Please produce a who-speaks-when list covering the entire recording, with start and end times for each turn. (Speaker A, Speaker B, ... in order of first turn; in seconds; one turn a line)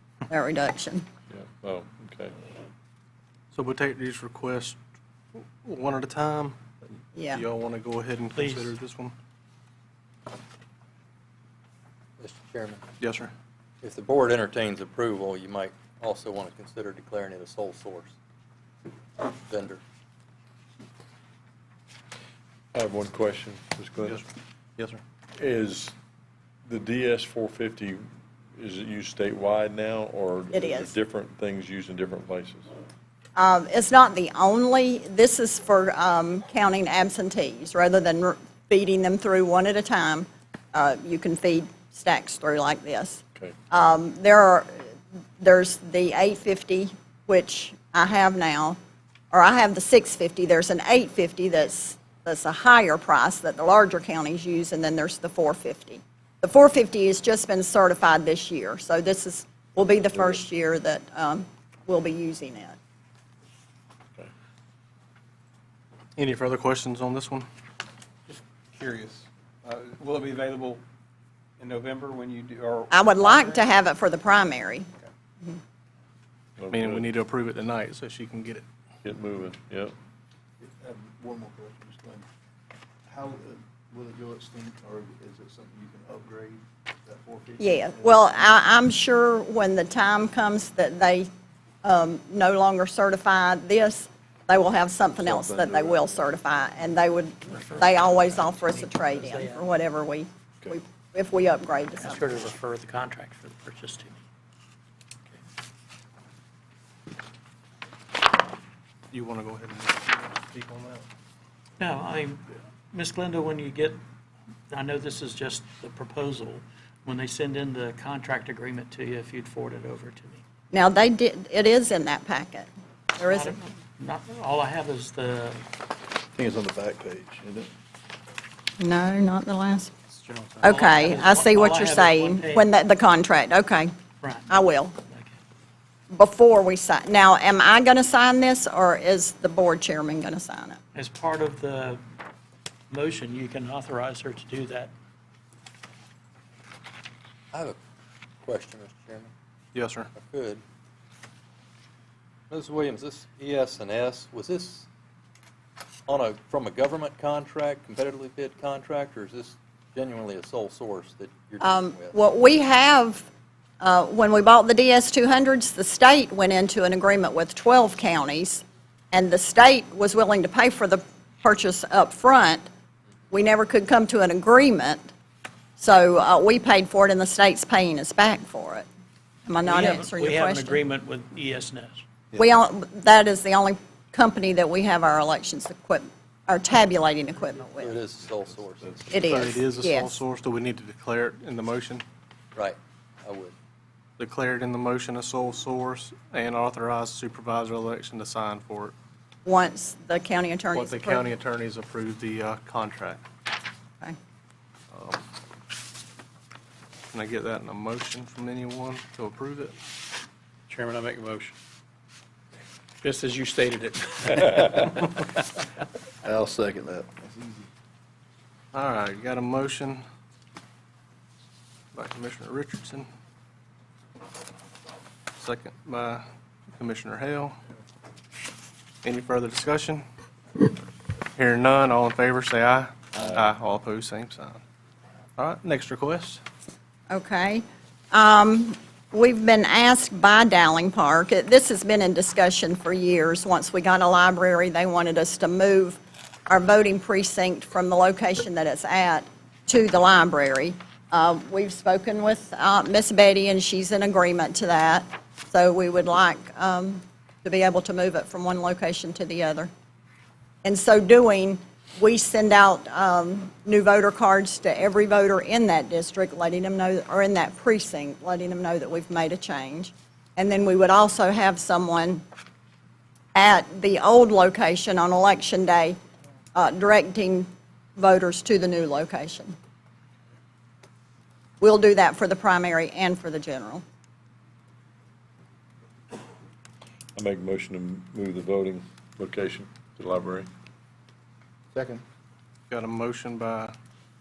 Speaker A: 0.3-1.0
Speaker B: 1.3-2.3
Speaker C: 3.5-4.8
Speaker C: 5.3-6.6
Speaker A: 7.1-7.4
Speaker C: 7.3-9.1
Speaker D: 8.3-8.7
Speaker E: 12.2-12.8
Speaker C: 13.0-13.3
Speaker E: 13.8-18.1
Speaker E: 19.5-19.8
Speaker B: 22.7-24.2
Speaker B: 25.4-25.9
Speaker B: 26.6-32.7
Speaker A: 30.5-30.9
Speaker A: 33.4-48.8
Speaker A: 49.3-62.8
Speaker C: 66.2-67.5
Speaker F: 68.3-70.8
Speaker F: 71.6-73.6
Speaker A: 72.9-74.9
Speaker B: 76.6-77.1
Speaker C: 76.7-78.6
Speaker B: 79.0-79.9
Speaker G: 80.6-82.2
Speaker G: 83.1-88.4
Speaker A: 87.6-91.3
Speaker A: 91.8-102.4
Speaker G: 95.2-96.2
Speaker D: 97.5-99.6
Speaker D: 102.0-104.2
Speaker C: 109.1-111.0
Speaker D: 111.8-114.0
Speaker D: 114.7-120.4
Speaker A: 120.7-123.6
Speaker D: 123.2-125.6
Speaker G: 126.3-127.7
Speaker A: 128.8-129.9
Speaker D: 130.1-132.7
Speaker A: 130.6-133.9
Speaker D: 134.2-135.4
Speaker A: 134.5-134.9
Speaker A: 136.1-140.8
Speaker D: 140.9-142.0
Speaker D: 142.9-144.9
Speaker E: 147.5-147.8
Speaker E: 148.4-149.3
Speaker C: 149.7-150.1
Speaker E: 150.1-150.6
Speaker E: 152.5-154.8
Speaker E: 156.1-162.2
Speaker A: 161.6-163.3
Speaker A: 163.8-172.7
Speaker A: 173.3-175.1
Speaker A: 175.8-178.9
Speaker A: 179.5-180.8
Speaker D: 179.6-182.0
Speaker A: 182.4-187.9
Speaker E: 187.8-189.1
Speaker A: 189.1-190.2
Speaker C: 189.2-192.0
Speaker E: 192.5-193.5
Speaker C: 194.2-198.9
Speaker A: 199.4-201.3
Speaker C: 200.7-203.2
Speaker C: 204.9-205.2
Speaker C: 207.1-209.7
Speaker D: 210.7-211.5
Speaker D: 213.0-215.2
Speaker G: 216.2-217.7
Speaker C: 218.7-220.0
Speaker C: 221.9-223.1
Speaker C: 225.4-226.2
Speaker C: 226.8-227.6
Speaker C: 229.0-230.0
Speaker C: 231.3-234.6
Speaker C: 235.4-236.4
Speaker A: 237.1-259.7
Speaker A: 260.6-272.2
Speaker A: 273.3-276.0
Speaker A: 276.5-279.5
Speaker A: 281.6-283.8
Speaker B: 287.1-290.5
Speaker G: 291.7-292.0
Speaker C: 292.7-293.7